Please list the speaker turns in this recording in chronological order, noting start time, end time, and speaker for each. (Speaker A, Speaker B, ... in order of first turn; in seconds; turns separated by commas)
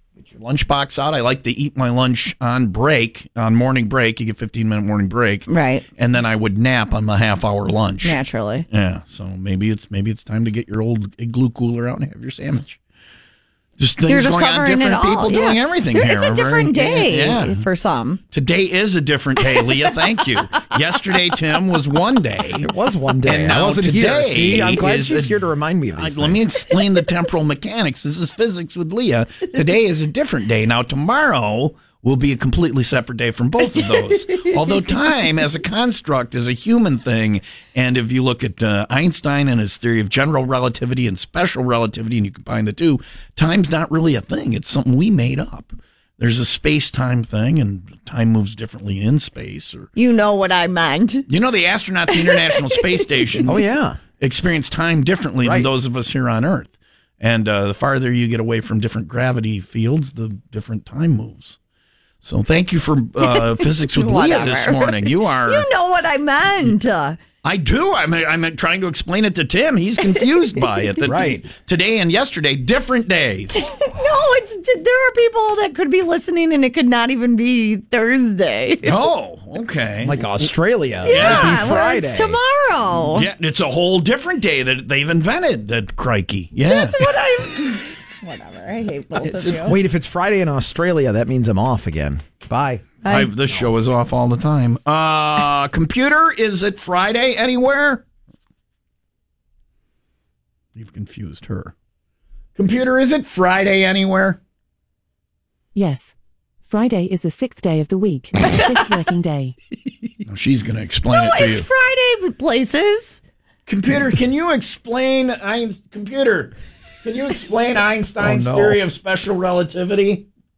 Speaker A: 0.2-12.8, Speaker B: 5.5-5.8, Speaker B: 8.0-8.7, Speaker A: 13.8-17.6, Speaker B: 14.1-18.2, Speaker A: 18.3-22.7, Speaker C: 22.6-26.4, Speaker A: 23.2-49.9, Speaker B: 34.0-34.6, Speaker B: 50.0-51.2, Speaker A: 51.3-53.6, Speaker B: 52.1-52.8, Speaker C: 53.5-54.0, Speaker A: 54.2-61.6, Speaker C: 55.4-55.7, Speaker A: 62.2-65.7, Speaker B: 63.2-67.2, Speaker A: 67.4-73.7, Speaker B: 70.0-70.8, Speaker C: 71.0-71.5, Speaker B: 73.6-79.0, Speaker A: 78.8-80.3, Speaker C: 80.0-82.4, Speaker B: 81.0-83.3, Speaker A: 81.0-81.7, Speaker A: 82.9-87.0, Speaker B: 86.7-89.8, Speaker A: 89.2-89.6, Speaker C: 89.6-92.8, Speaker B: 93.0-93.3, Speaker A: 93.0-98.0, Speaker A: 100.7-101.7, Speaker A: 102.5-104.4, Speaker D: 105.7-106.1, Speaker D: 106.7-109.5, Speaker B: 108.4-109.0, Speaker A: 110.2-111.7, Speaker B: 111.1-113.2, Speaker A: 113.7-120.2, Speaker C: 118.2-118.8